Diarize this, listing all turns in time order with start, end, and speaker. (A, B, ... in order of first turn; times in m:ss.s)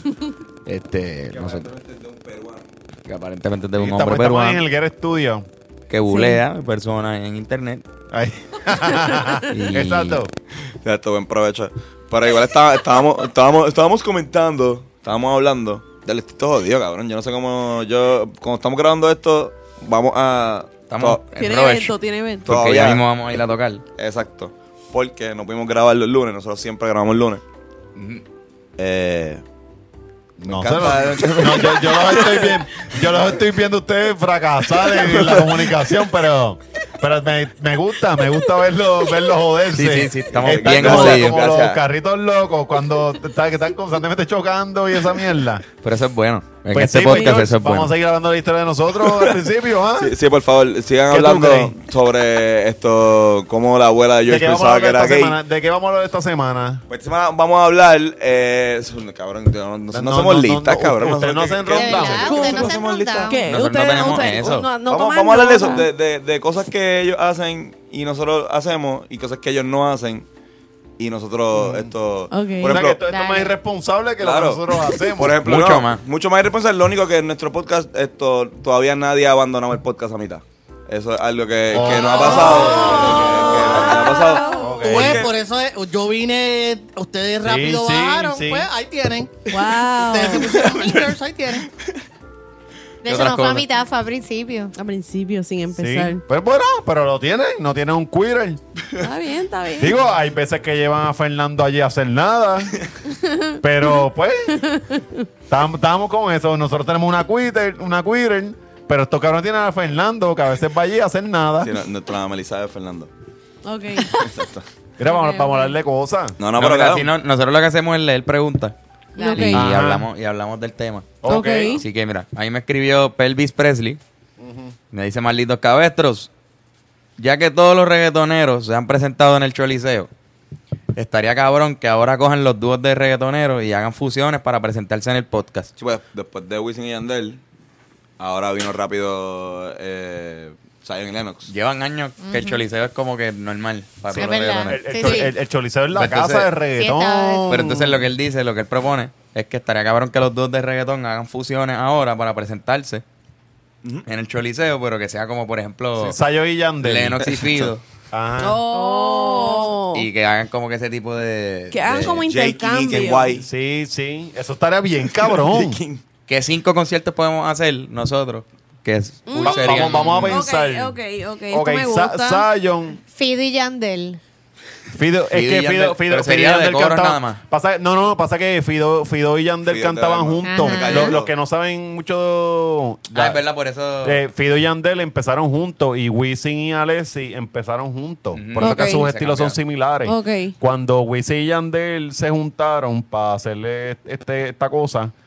0:00.7-0:01.7 A
0:01.3-0:02.6 B
0:03.1-0:04.6 A
0:03.8-0:05.5 C
0:05.9-0:07.8 A
0:06.1-0:06.4 D
0:08.1-0:10.3 C
0:09.5-0:10.2 A
0:10.8-0:21.2 B
0:20.9-0:23.8 A
0:21.4-0:22.5 D
0:22.5-0:23.0 B
0:24.0-0:27.4 B
0:28.0-0:28.2 A
0:28.8-0:29.4 B
0:30.4-0:45.6 C
0:30.4-0:33.3 B
0:34.8-0:35.7 B
0:39.7-0:41.4 A
0:40.3-0:41.8 B
0:45.8-0:47.9 A
0:46.7-0:50.1 C
0:47.1-0:47.4 D
0:49.0-0:49.4 B
0:50.0-0:55.4 B
0:51.1-0:51.8 C
0:54.3-0:56.8 C
0:56.9-1:03.4 B
0:59.9-1:02.4 C
1:01.7-1:03.4 E
1:02.2-1:05.9 D
1:03.5-1:04.7 A
1:04.9-1:10.3 B
1:11.0-1:13.0 B
1:11.6-1:11.9 C
1:12.3-1:12.8 D
1:12.7-1:15.4 C
1:13.1-1:13.5 E
1:14.2-1:25.3 B
1:15.4-1:16.0 A
1:21.7-1:23.3 C
1:22.2-1:24.8 D
1:22.9-1:29.5 F
1:24.6-1:25.3 C
1:27.4-1:28.7 C
1:29.5-1:30.6 D
1:30.1-1:31.7 F
1:30.4-1:31.1 B
1:33.0-1:34.7 E
1:33.0-1:33.6 A
1:34.8-1:36.2 D
1:35.8-1:38.6 C
1:39.0-1:40.0 D
1:39.8-1:42.8 C
1:43.6-1:44.6 C
1:44.7-1:45.0 D
1:45.5-1:51.7 C
1:51.6-1:53.1 B
1:53.6-1:54.4 D
1:54.0-1:54.6 B
1:55.0-1:56.4 C
1:55.0-1:55.8 D
1:56.4-1:57.1 B
1:56.6-1:58.8 A
1:59.2-1:59.6 D
1:59.2-1:59.5 E
1:59.3-2:04.0 A
1:59.5-2:00.1 C
2:01.2-2:01.8 C
2:01.3-2:01.8 D
2:04.4-2:04.8 C
2:04.9-2:06.3 A
2:07.2-2:10.1 A
2:11.0-2:15.7 A
2:15.8-2:17.4 B
2:18.2-2:21.5 B
2:21.5-2:25.2 A
2:22.2-2:22.7 E
2:24.1-2:25.3 E
2:24.6-2:28.1 C
2:25.9-2:26.5 A
2:26.8-2:27.5 E
2:27.5-2:33.0 A
2:34.1-2:36.2 A
2:36.0-2:37.2 C
2:36.8-2:37.8 A
2:37.3-2:37.7 B
2:38.1-2:38.6 C
2:38.4-2:40.1 D
2:38.7-2:39.7 E
2:39.9-2:42.2 A
2:41.7-2:43.4 D
2:42.2-2:43.5 B
2:43.4-2:45.8 C
2:45.1-2:46.0 B
2:46.3-2:50.4 A
2:49.3-2:52.5 D
2:49.4-2:51.0 C
2:51.5-2:53.0 C
2:53.1-2:54.2 E
2:54.9-3:03.4 C
2:55.3-2:57.4 A
2:59.7-3:01.3 B
3:00.4-3:01.2 E
3:03.1-3:04.2 A
3:04.0-3:15.1 C
3:08.3-3:09.6 A
3:08.6-3:09.1 D
3:10.0-3:10.5 D